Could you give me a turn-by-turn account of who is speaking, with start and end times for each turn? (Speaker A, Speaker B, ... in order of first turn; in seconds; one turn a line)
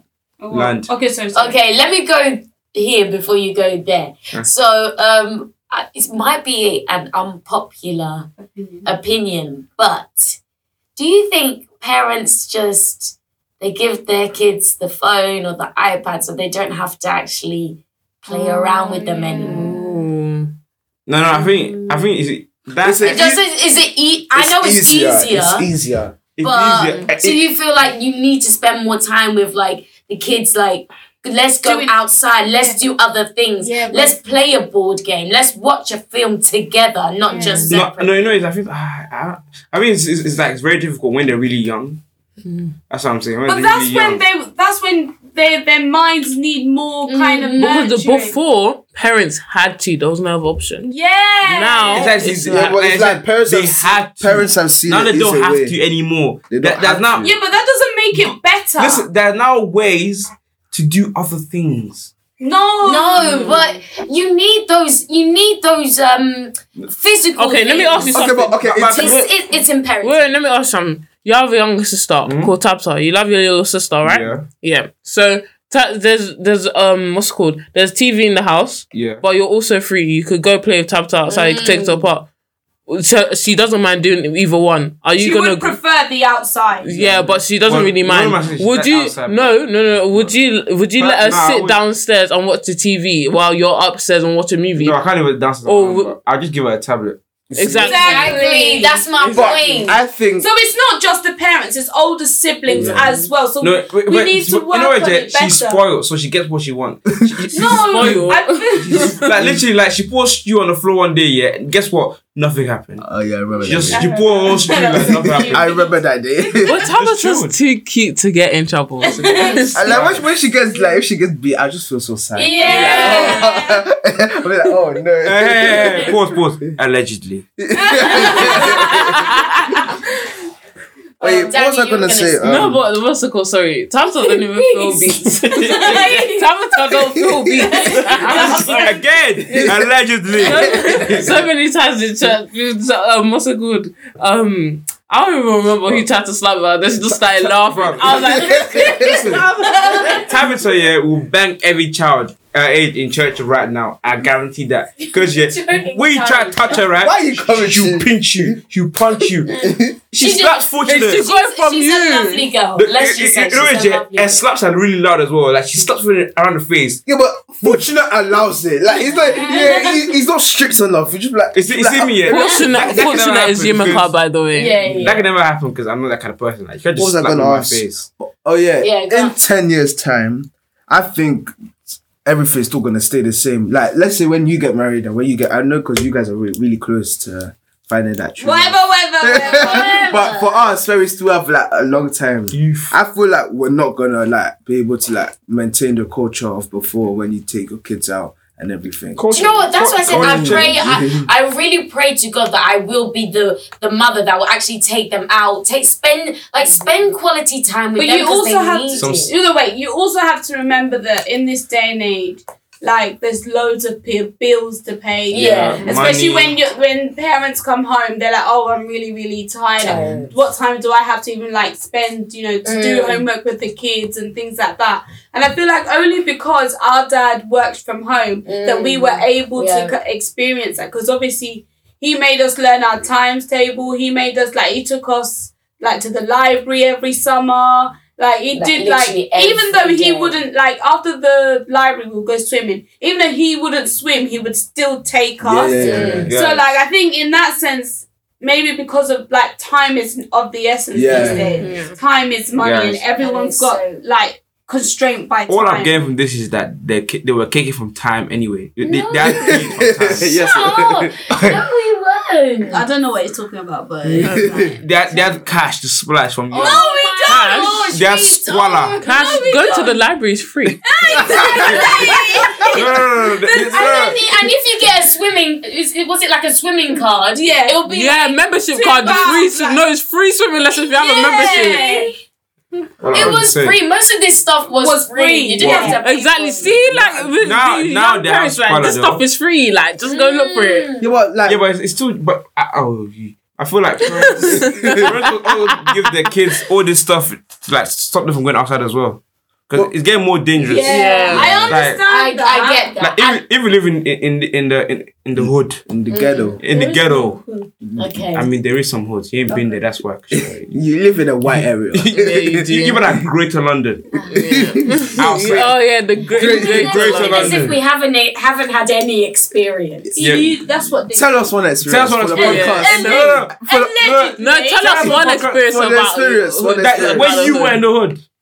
Speaker A: 0.4-1.6
Speaker B: 0.5-0.9
Speaker C: 1.3-8.3
Speaker A: 8.4-8.9
Speaker C: 8.9-10.4
Speaker C: 11.0-19.8
Speaker D: 18.4-20.5
Speaker B: 21.1-23.3
Speaker E: 22.8-23.4
Speaker C: 23.0-25.7
Speaker E: 24.3-26.2
Speaker B: 26.4-27.4
Speaker C: 26.4-38.4
Speaker A: 31.6-32.0
Speaker A: 33.6-34.2
Speaker A: 37.3-37.8
Speaker D: 37.4-37.7
Speaker B: 37.7-42.0
Speaker D: 42.5-42.7
Speaker B: 42.9-44.2
Speaker A: 43.5-48.4
Speaker C: 47.1-47.8
Speaker D: 47.6-50.9
Speaker A: 50.8-52.1
Speaker D: 51.4-52.8
Speaker B: 51.9-57.3
Speaker E: 52.4-55.8
Speaker E: 56.5-57.3
Speaker A: 57.2-59.1
Speaker B: 58.1-62.1
Speaker A: 62.4-63.8
Speaker C: 62.8-68.2
Speaker D: 67.4-68.7
Speaker E: 68.1-69.2
Speaker B: 68.6-69.3
Speaker C: 68.8-70.3
Speaker D: 70.0-82.3
Speaker B: 72.2-72.5
Speaker B: 74.0-74.5
Speaker B: 78.9-79.2
Speaker C: 81.3-82.1
Speaker D: 82.9-85.8
Speaker A: 85.2-86.9
Speaker D: 86.8-95.0
Speaker B: 86.9-90.4
Speaker B: 91.0-91.8
Speaker B: 94.8-97.9
Speaker D: 95.6-96.2
Speaker D: 97.5-98.4
Speaker A: 97.8-99.1
Speaker C: 97.8-100.0
Speaker D: 99.2-99.9
Speaker E: 99.3-100.5
Speaker A: 100.4-105.8
Speaker E: 102.7-103.1
Speaker B: 103.6-108.2
Speaker D: 107.5-109.2
Speaker A: 107.5-109.2
Speaker B: 108.8-113.1
Speaker E: 109.4-109.6
Speaker E: 113.0-114.1
Speaker B: 113.6-115.8
Speaker A: 113.7-115.9
Speaker E: 115.5-116.8
Speaker D: 116.6-119.8
Speaker B: 116.7-117.6
Speaker A: 119.0-119.9
Speaker E: 119.7-126.2
Speaker B: 119.8-120.2
Speaker C: 122.3-123.7
Speaker A: 122.4-123.6
Speaker D: 122.6-123.4
Speaker B: 125.2-127.5
Speaker E: 127.6-129.2
Speaker A: 127.8-129.1
Speaker C: 128.0-129.3
Speaker D: 128.2-129.8
Speaker C: 131.2-132.7
Speaker E: 131.2-132.8
Speaker D: 132.4-138.9
Speaker C: 134.5-135.2
Speaker B: 135.4-136.2
Speaker A: 135.7-136.5
Speaker C: 135.9-136.2
Speaker C: 137.8-138.9
Speaker A: 137.8-138.7
Speaker B: 138.1-141.5
Speaker E: 139.6-139.9
Speaker D: 140.4-149.5
Speaker E: 140.5-141.2
Speaker B: 147.4-148.3
Speaker E: 148.1-149.4
Speaker C: 149.2-150.3
Speaker A: 149.9-150.2
Speaker B: 150.1-161.2
Speaker C: 155.0-156.8
Speaker E: 157.0-158.6
Speaker C: 159.5-164.4
Speaker E: 159.6-160.0
Speaker D: 160.9-162.5
Speaker B: 162.8-167.0
Speaker E: 167.1-172.4
Speaker A: 169.3-169.9
Speaker C: 169.4-169.9
Speaker B: 171.5-174.1
Speaker D: 172.3-174.8
Speaker C: 172.3-172.7
Speaker C: 174.5-175.2
Speaker E: 174.9-175.1
Speaker B: 175.0-178.1
Speaker E: 177.0-199.2
Speaker C: 178.8-179.4
Speaker A: 188.4-190.1
Speaker C: 189.4-190.5
Speaker B: 192.5-192.9
Speaker B: 199.2-201.0
Speaker C: 199.3-209.3
Speaker E: 200.1-201.3
Speaker A: 206.6-207.1
Speaker A: 208.0-256.0
Speaker B: 208.9-209.3
Speaker C: 215.3-216.1
Speaker B: 215.3-216.6
Speaker C: 219.8-220.3
Speaker E: 219.9-220.3
Speaker C: 222.6-223.3
Speaker C: 228.4-229.9
Speaker C: 238.5-240.4
Speaker E: 245.4-246.3
Speaker C: 245.7-246.3
Speaker B: 245.8-246.8
Speaker E: 250.9-251.6
Speaker C: 251.1-251.8
Speaker D: 251.2-252.0
Speaker B: 252.6-253.0
Speaker C: 253.2-254.0
Speaker B: 255.5-260.3
Speaker C: 258.8-262.9
Speaker E: 259.2-261.3
Speaker B: 261.3-261.6
Speaker A: 262.6-265.3
Speaker B: 264.1-269.0
Speaker E: 264.2-264.8
Speaker C: 266.5-269.9
Speaker A: 266.5-267.8
Speaker D: 267.2-267.9
Speaker D: 269.0-270.9
Speaker A: 269.0-270.0
Speaker A: 270.8-272.9
Speaker C: 271.1-272.8
Speaker E: 271.2-271.8
Speaker B: 271.6-272.1
Speaker B: 272.7-274.2
Speaker A: 273.4-274.1
Speaker C: 273.5-278.4
Speaker A: 277.3-277.8
Speaker D: 277.9-282.1
Speaker A: 278.7-279.9
Speaker C: 279.0-279.4
Speaker A: 281.0-282.1
Speaker C: 281.1-282.0
Speaker B: 283.0-283.8
Speaker E: 283.1-283.4
Speaker C: 283.1-286.8
Speaker A: 284.7-286.1
Speaker B: 285.6-286.0
Speaker D: 286.0-290.9
Speaker B: 286.9-289.2
Speaker C: 290.1-291.1
Speaker E: 291.0-291.6
Speaker B: 291.5-302.0
Speaker D: 294.3-295.6
Speaker E: 294.4-295.1
Speaker A: 300.6-302.9
Speaker D: 300.9-301.5
Speaker C: 301.7-303.4
Speaker B: 303.0-305.8
Speaker E: 305.4-306.6
Speaker C: 306.1-306.6
Speaker B: 306.6-310.7
Speaker A: 306.7-307.7
Speaker C: 308.0-308.5
Speaker E: 310.7-312.6
Speaker B: 311.4-314.1
Speaker D: 312.1-313.0
Speaker C: 314.1-314.5
Speaker E: 314.3-315.6
Speaker D: 314.3-317.7
Speaker B: 315.2-315.8
Speaker E: 316.3-317.0
Speaker C: 316.3-320.1
Speaker B: 316.6-317.8
Speaker A: 320.2-321.5
Speaker B: 320.2-320.5
Speaker E: 321.1-323.9
Speaker B: 321.9-325.6
Speaker A: 322.4-325.2
Speaker D: 322.4-323.4
Speaker D: 324.4-327.9
Speaker E: 325.6-327.5
Speaker B: 326.8-328.2